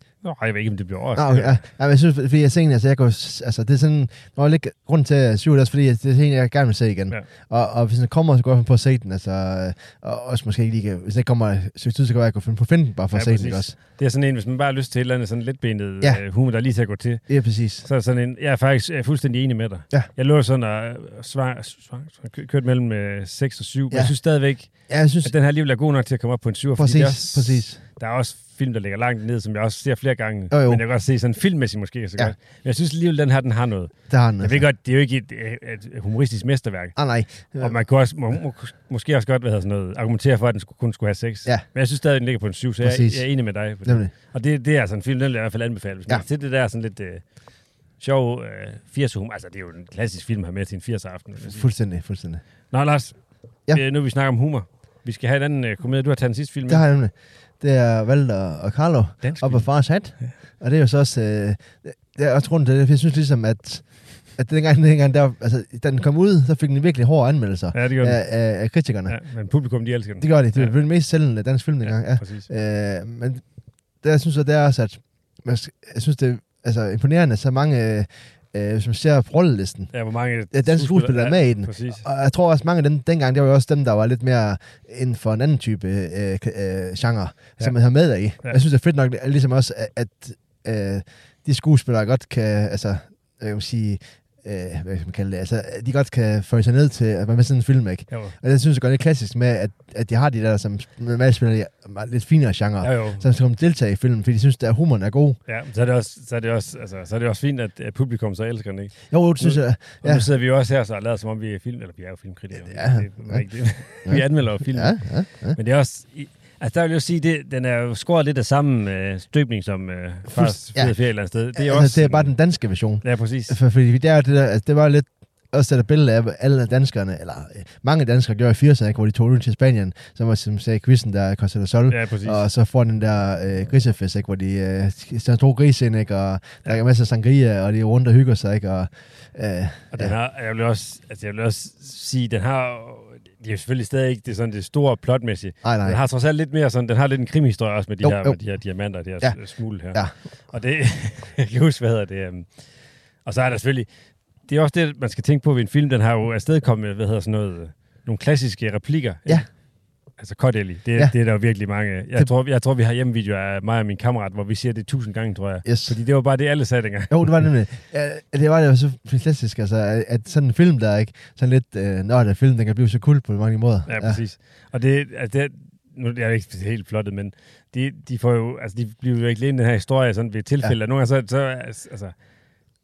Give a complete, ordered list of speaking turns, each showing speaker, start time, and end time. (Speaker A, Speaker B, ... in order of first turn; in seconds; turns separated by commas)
Speaker A: 0.2-1.6, Speaker B: 1.1-13.7, Speaker A: 13.1-17.3, Speaker B: 17.3-17.8, Speaker A: 17.8-37.0, Speaker B: 24.8-25.3, Speaker B: 26.8-27.8, Speaker B: 30.5-30.8, Speaker B: 34.1-34.6, Speaker B: 37.0-37.8, Speaker A: 37.5-51.7, Speaker B: 42.8-43.3, Speaker B: 43.8-44.1, Speaker B: 51.4-52.4, Speaker A: 52.7-56.8, Speaker B: 56.7-69.2, Speaker A: 59.2-60.3, Speaker A: 67.7-68.2, Speaker A: 69.1-70.8, Speaker B: 70.2-73.5, Speaker A: 71.8-72.5, Speaker B: 74.0-79.9, Speaker A: 79.9-82.0, Speaker B: 80.5-105.4, Speaker A: 98.1-98.3, Speaker A: 102.8-103.2, Speaker A: 105.5-122.3, Speaker B: 109.1-110.3, Speaker B: 112.6-115.6, Speaker B: 120.3-140.1, Speaker A: 123.0-123.5, Speaker A: 131.9-132.4, Speaker A: 139.9-152.7, Speaker B: 145.6-146.0, Speaker B: 148.0-148.4, Speaker B: 149.2-150.1, Speaker A: 153.2-153.9, Speaker A: 154.4-159.5, Speaker A: 160.1-167.1, Speaker B: 165.6-165.9, Speaker B: 167.1-174.2, Speaker A: 173.9-182.2